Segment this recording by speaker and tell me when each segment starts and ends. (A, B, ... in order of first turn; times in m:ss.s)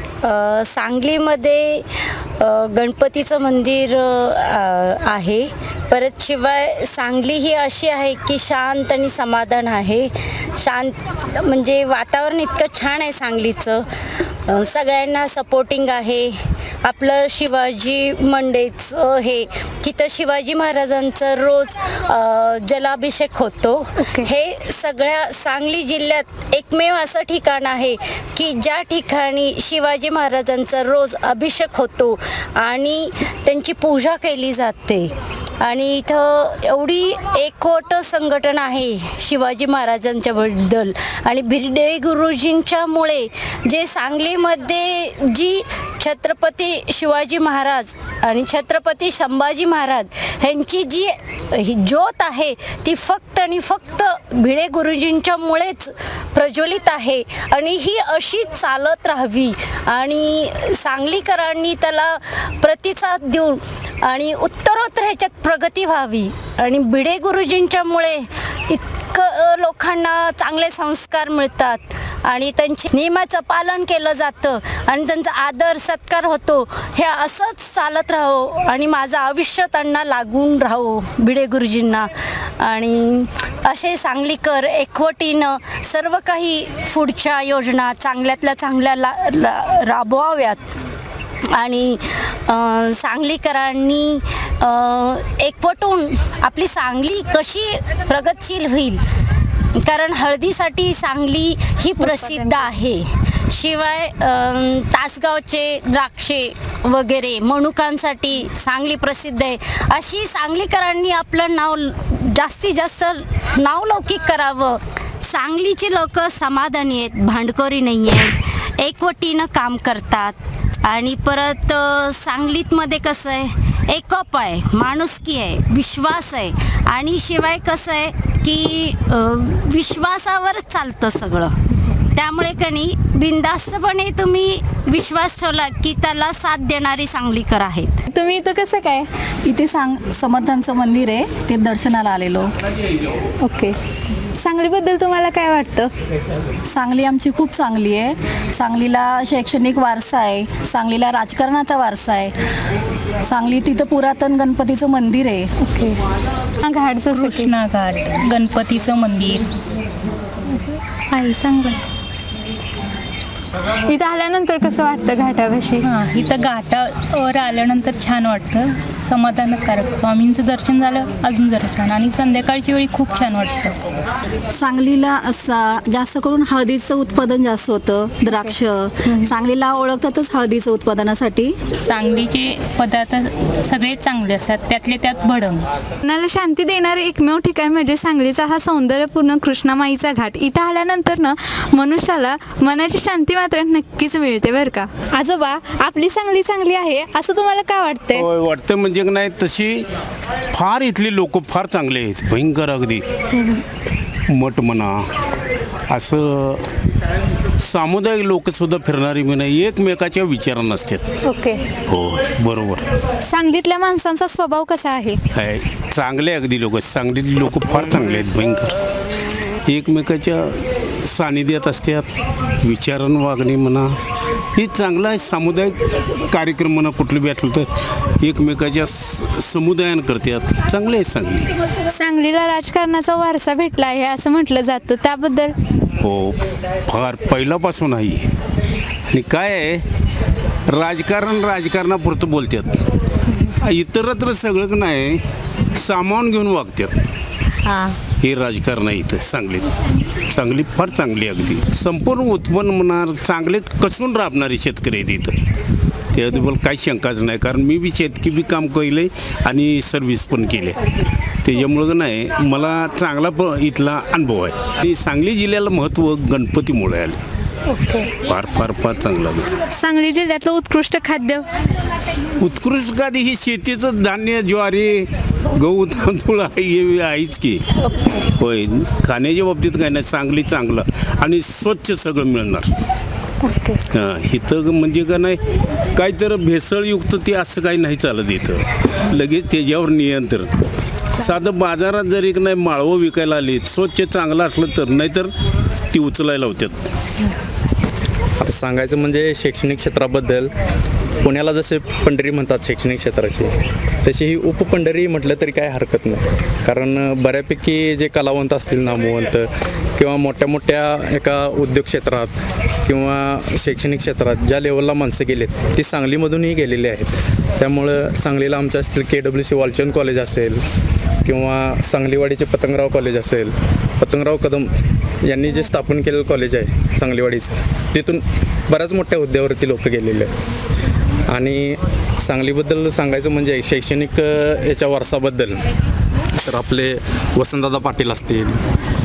0:00.2-1:30.6 A
0:24.0-0:24.3 B
1:31.5-1:39.0 A
1:39.8-2:00.4 A
1:42.0-1:42.6 B
2:00.9-2:11.6 A
2:12.2-2:18.0 A
2:18.1-2:19.1 B
2:19.5-2:22.5 C
2:23.4-2:23.8 B
2:24.4-2:25.9 B
2:26.7-2:32.3 C
2:33.3-2:35.5 C
2:35.7-2:36.0 B
2:36.6-2:37.5 B
2:37.1-2:39.4 D
2:41.1-2:41.8 D
2:43.9-2:45.8 B
2:45.8-2:53.8 D
2:54.6-3:01.6 C
2:58.3-2:59.3 B
3:01.8-3:05.7 D
3:06.0-3:18.3 B
3:18.1-3:19.9 E
3:20.5-3:23.0 E
3:23.4-3:23.6 B
3:24.3-3:25.0 E
3:25.9-3:26.6 E
3:27.6-3:31.1 E
3:31.2-3:31.6 B
3:31.9-3:32.9 E
3:33.3-3:35.2 B
3:35.3-3:38.7 E
3:39.7-3:42.1 E
3:42.6-3:43.9 E
3:44.6-3:47.7 E
3:48.2-3:51.5 E
3:51.9-3:55.6 B
3:56.0-3:58.3 E
3:59.1-3:59.8 E
4:00.7-4:02.8 E
4:03.6-4:05.2 E
4:05.8-4:07.0 E
4:08.2-4:09.7 E
4:10.3-4:15.4 E
4:16.1-4:20.8 E
4:21.4-4:27.2 E
4:27.8-4:28.1 B
4:28.2-4:29.5 E
4:29.8-4:31.4 B
4:32.4-4:37.6 E
4:38.4-4:42.7 E
4:43.4-4:43.8 B
4:43.9-4:45.4 E
4:45.9-4:50.6 E
4:51.2-4:55.3 E
4:55.9-4:56.9 E
4:58.4-5:00.5 F
5:01.2-5:03.5 F
5:04.0-5:12.3 F
5:12.9-5:20.6 F
5:21.2-5:24.7 F
5:25.2-5:30.3 F
5:31.3-5:35.6 F
5:36.4-5:38.6 F